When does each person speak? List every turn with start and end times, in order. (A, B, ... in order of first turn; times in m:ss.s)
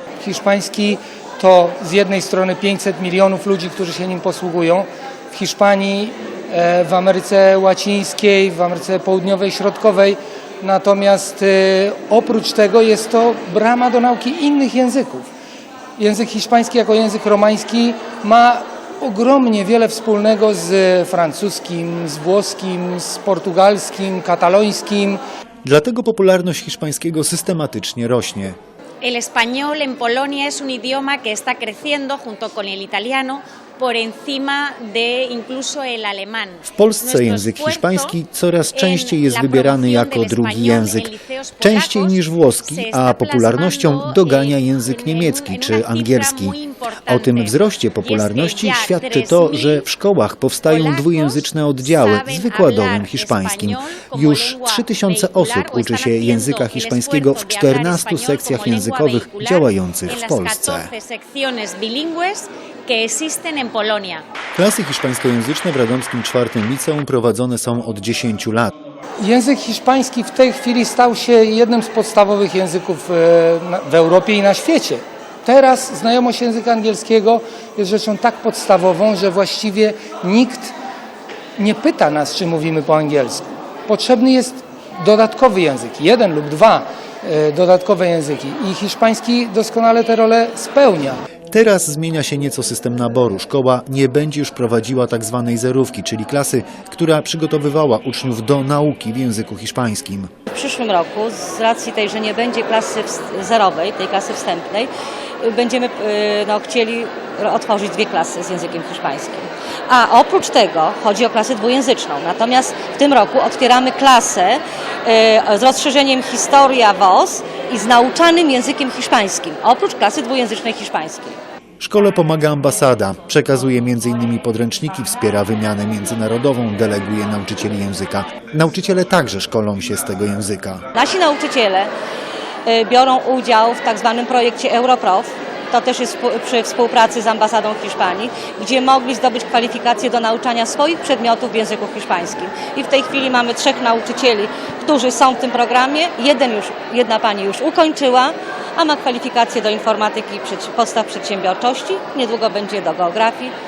0:00.2-0:15.3 A
0:16.0-0:25.2 A
0:25.6-0:28.6 B
0:29.0-0:38.1 C
0:36.6-1:00.9 B
0:38.7-0:49.9 C
0:50.7-1:04.2 C
1:04.5-1:08.7 B
1:09.2-1:20.7 A
1:21.6-1:31.2 A
1:31.5-1:40.3 B
1:40.5-1:44.9 D
1:45.4-2:01.4 D
2:01.8-2:10.8 B
2:10.9-2:11.9 D
2:12.6-2:33.5 D